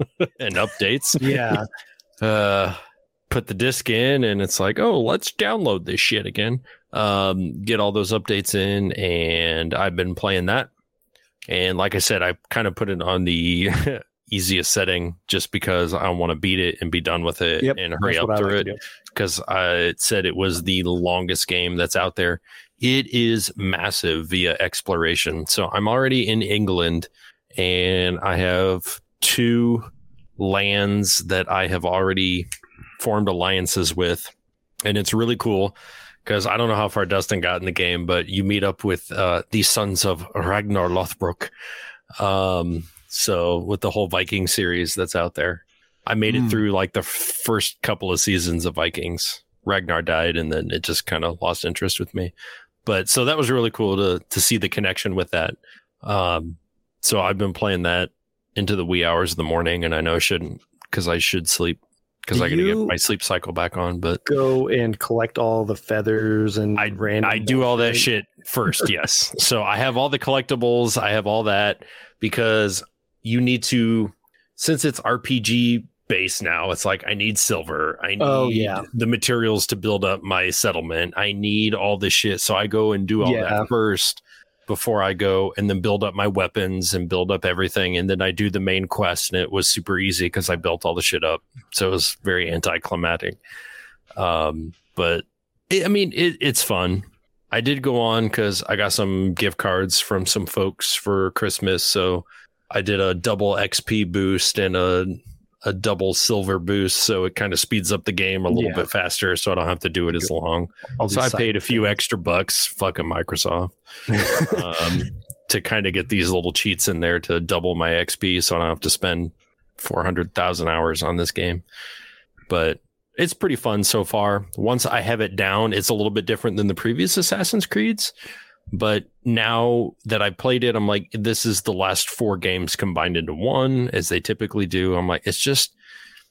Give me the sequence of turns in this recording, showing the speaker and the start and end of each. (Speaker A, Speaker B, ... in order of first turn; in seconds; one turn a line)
Speaker A: 0.2-1.6
Speaker B: 1.2-1.6
Speaker A: 2.2-2.8
Speaker A: 3.3-10.7
Speaker A: 11.5-32.5
Speaker B: 17.6-18.8
Speaker A: 33.0-34.3
Speaker A: 34.8-41.5
Speaker A: 42.2-52.3
Speaker A: 52.8-64.2
Speaker B: 62.3-62.9
Speaker B: 64.2-68.1
Speaker A: 66.8-93.4
Speaker B: 78.2-78.9
Speaker B: 83.2-83.7
Speaker A: 94.2-121.6
Speaker B: 108.5-108.9
Speaker B: 111.0-111.8
Speaker B: 114.1-114.7
Speaker A: 122.5-128.1
Speaker A: 128.7-135.7